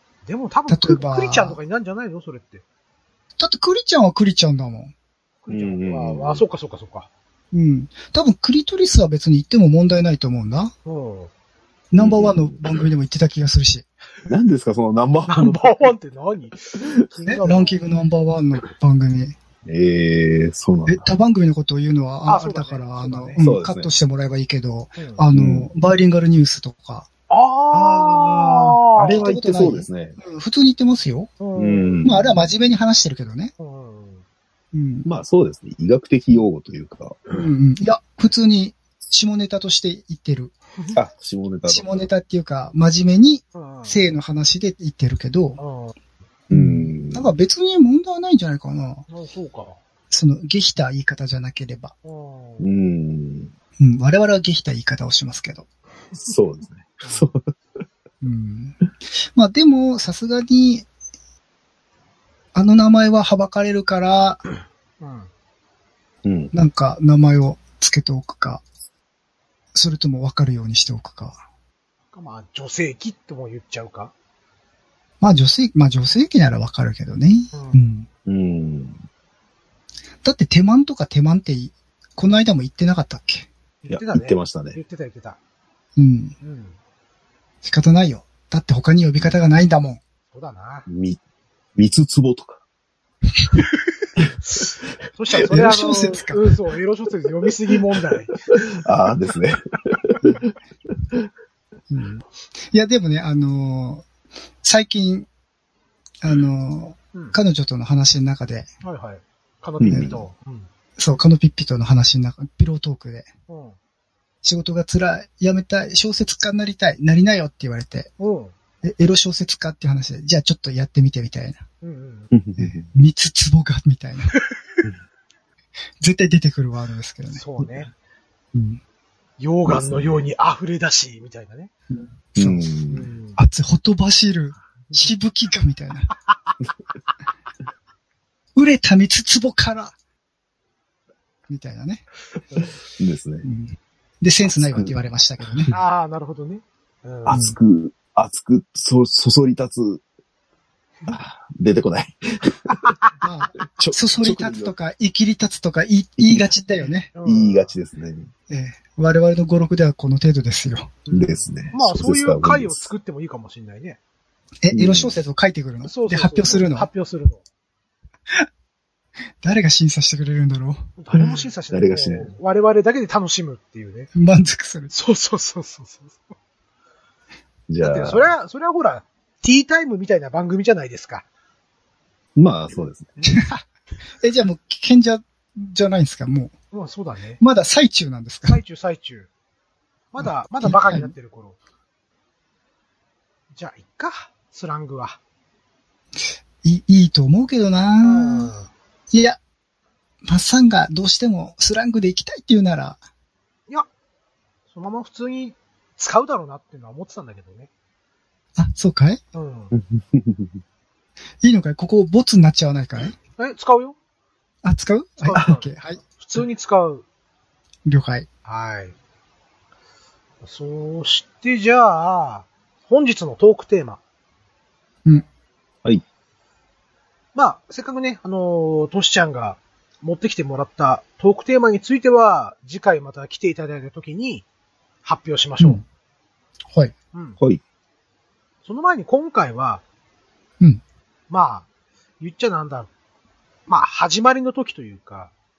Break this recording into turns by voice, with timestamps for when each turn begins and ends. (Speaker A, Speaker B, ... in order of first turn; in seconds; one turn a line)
Speaker A: 0.2-2.6
Speaker B: 0.7-1.6
Speaker B: 3.4-4.9
Speaker A: 5.4-7.1
Speaker C: 5.5-6.4
Speaker B: 7.5-10.7
Speaker A: 10.8-11.3
Speaker B: 11.9-13.9
Speaker C: 12.0-12.5
Speaker C: 14.3-15.9
Speaker A: 15.3-17.8
Speaker B: 17.3-19.4
Speaker C: 19.6-21.1
Speaker B: 20.9-27.1
Speaker A: 22.2-23.4
Speaker C: 23.4-23.9
Speaker A: 24.9-25.2
Speaker C: 25.3-25.7
Speaker A: 27.3-29.3
Speaker C: 27.7-30.2
Speaker B: 28.9-31.3
Speaker A: 31.4-32.1
Speaker C: 31.5-32.3
Speaker B: 32.0-33.5
Speaker A: 33.6-34.2
Speaker B: 34.7-35.1
Speaker C: 35.0-37.2
Speaker B: 37.3-40.5
Speaker C: 40.9-42.1
Speaker B: 41.7-45.6
Speaker A: 43.5-44.0
Speaker A: 45.6-46.0
Speaker C: 46.5-47.3
Speaker B: 46.5-49.0
Speaker A: 49.1-49.8
Speaker B: 50.1-51.9
Speaker A: 52.0-52.7
Speaker C: 52.6-53.5
Speaker B: 53.8-55.7
Speaker C: 56.1-57.5
Speaker A: 57.0-57.3
Speaker B: 58.2-60.9
Speaker B: 62.5-64.4
Speaker A: 65.0-65.3
Speaker C: 66.2-66.5
Speaker B: 66.5-68.6
Speaker B: 69.7-71.4
Speaker A: 72.1-74.1
Speaker B: 75.2-78.1
Speaker A: 77.5-77.9
Speaker C: 78.2-79.0
Speaker B: 80.2-83.5
Speaker A: 83.8-85.4
Speaker C: 83.9-84.8
Speaker B: 86.0-86.3
Speaker A: 86.4-86.7
Speaker B: 87.6-90.0
Speaker A: 90.3-90.9
Speaker C: 90.9-91.2
Speaker C: 91.8-92.6
Speaker A: 94.4-98.4
Speaker B: 95.5-96.4
Speaker C: 98.7-99.6
Speaker C: 100.1-100.5
Speaker B: 101.9-104.1
Speaker B: 104.6-105.3
Speaker B: 106.2-108.7
Speaker A: 108.8-110.7
Speaker C: 109.8-110.2
Speaker B: 109.9-110.1
Speaker B: 111.0-113.3
Speaker A: 113.5-113.8
Speaker B: 114.4-118.1
Speaker A: 118.2-118.5
Speaker B: 118.8-121.6
Speaker A: 121.8-122.3
Speaker C: 122.3-122.9
Speaker B: 122.6-124.3
Speaker B: 126.0-127.4
Speaker A: 127.3-127.9
Speaker B: 128.5-128.8
Speaker A: 129.4-131.7
Speaker C: 129.7-130.2
Speaker B: 131.9-132.6
Speaker C: 132.3-133.1
Speaker A: 132.9-133.4
Speaker B: 133.4-136.1
Speaker B: 138.6-139.9
Speaker B: 141.5-142.1
Speaker C: 142.9-143.5
Speaker B: 143.4-145.7
Speaker C: 144.5-144.9
Speaker A: 145.7-147.5
Speaker C: 147.2-150.0
Speaker B: 147.3-147.6
Speaker C: 151.1-152.8
Speaker B: 153.2-157.1
Speaker C: 153.7-154.7
Speaker A: 157.1-157.8
Speaker C: 157.2-158.3
Speaker B: 158.5-161.0
Speaker A: 161.1-164.0
Speaker C: 161.1-162.9
Speaker B: 164.6-166.9
Speaker C: 164.7-165.2
Speaker A: 165.8-167.4
Speaker B: 169.4-171.0
Speaker A: 171.0-174.1
Speaker C: 171.2-172.3
Speaker B: 174.1-174.9
Speaker A: 174.9-176.3
Speaker C: 177.7-178.3
Speaker A: 177.8-181.2
Speaker C: 182.3-183.1
Speaker B: 183.3-183.6
Speaker B: 184.2-186.5
Speaker A: 186.7-187.4
Speaker B: 187.4-188.6
Speaker A: 188.5-189.3
Speaker A: 190.1-191.6
Speaker B: 190.2-191.1
Speaker A: 193.5-195.2
Speaker B: 196.6-198.5
Speaker A: 198.0-198.7
Speaker B: 199.1-199.4
Speaker B: 200.2-203.0
Speaker A: 204.7-207.7
Speaker B: 208.6-209.2
Speaker A: 209.3-209.7
Speaker C: 209.7-210.6
Speaker B: 211.4-213.2
Speaker A: 213.4-214.0
Speaker B: 214.6-216.0
Speaker A: 215.2-217.0
Speaker B: 217.8-218.3
Speaker A: 218.4-218.9
Speaker A: 220.4-224.0
Speaker A: 227.3-234.4
Speaker A: 235.0-235.8
Speaker B: 235.6-235.8
Speaker A: 237.1-237.4
Speaker A: 238.6-239.8
Speaker A: 241.3-241.7
Speaker A: 242.2-242.9
Speaker A: 243.7-245.3